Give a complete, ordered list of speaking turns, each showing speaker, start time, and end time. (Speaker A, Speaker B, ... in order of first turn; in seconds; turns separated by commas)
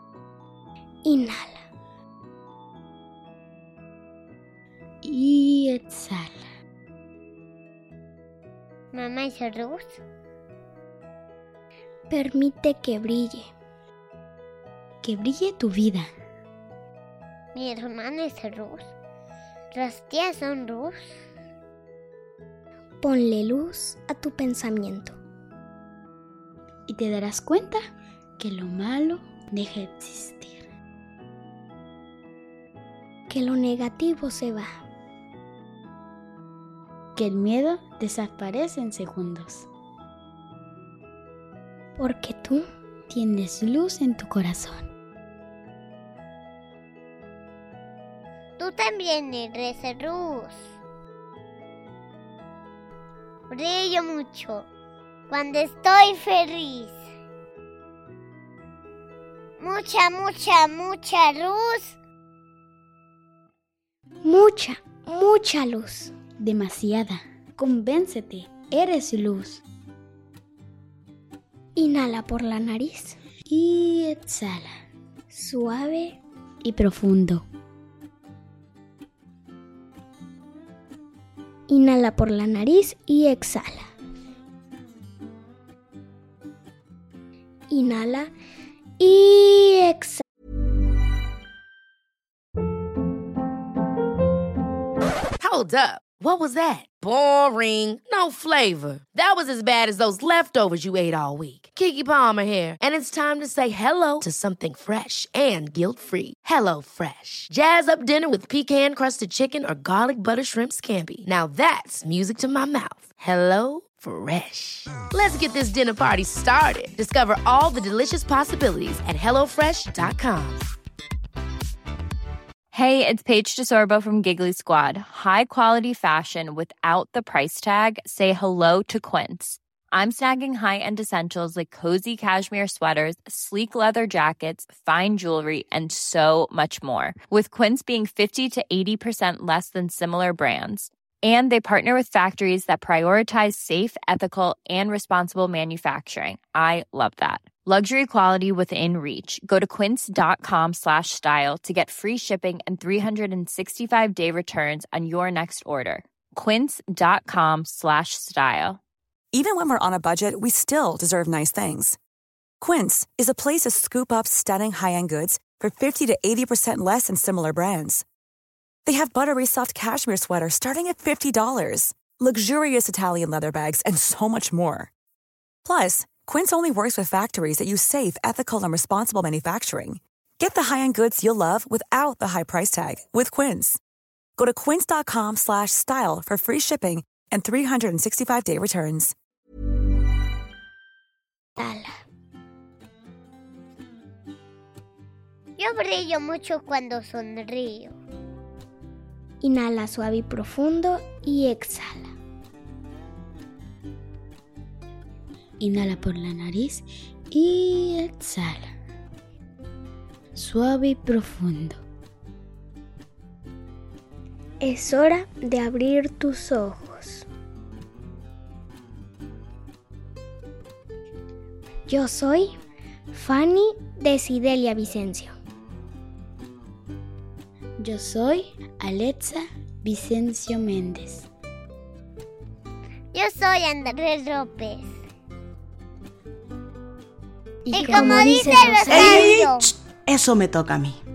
Speaker A: 1.0-1.7, Speaker B: 5.0-6.4, Speaker C: 8.9-10.0, Speaker A: 12.1-13.5, Speaker B: 15.0-16.1, Speaker C: 17.5-18.9, Speaker C: 19.7-21.1, Speaker A: 23.0-25.2, Speaker B: 26.9-27.8, Speaker B: 28.4-30.6, Speaker A: 33.3-34.8, Speaker B: 37.1-39.7, Speaker A: 42.0-42.6, Speaker B: 43.1-44.9, Speaker C: 48.6-50.6, Speaker C: 53.5-54.7, Speaker C: 55.3-57.0, Speaker C: 59.6-61.9, Speaker A: 64.2-66.1, Speaker B: 66.4-69.6, Speaker A: 71.8-73.2, Speaker B: 73.5-74.8, Speaker A: 75.3-76.2, Speaker B: 76.6-77.4, Speaker A: 81.7-83.9, Speaker A: 87.7-88.3, Speaker A: 89.0-90.2, Speaker D: 95.4-120.7, Speaker E: 122.7-158.8, Speaker F: 159.3-162.0, Speaker F: 162.6-168.0, Speaker F: 168.9-174.9, Speaker F: 175.6-183.8, Speaker F: 184.4-189.1, Speaker A: 191.6-191.9, Speaker C: 195.6-198.0, Speaker A: 199.4-202.1, Speaker B: 205.6-208.7, Speaker B: 210.3-211.8, Speaker A: 214.6-217.2, Speaker A: 221.9-222.5, Speaker A: 223.1-225.3, Speaker B: 227.8-231.3, Speaker C: 233.1-234.9, Speaker B: 237.6-239.3, Speaker C: 237.7-239.7, Speaker G: 238.9-240.9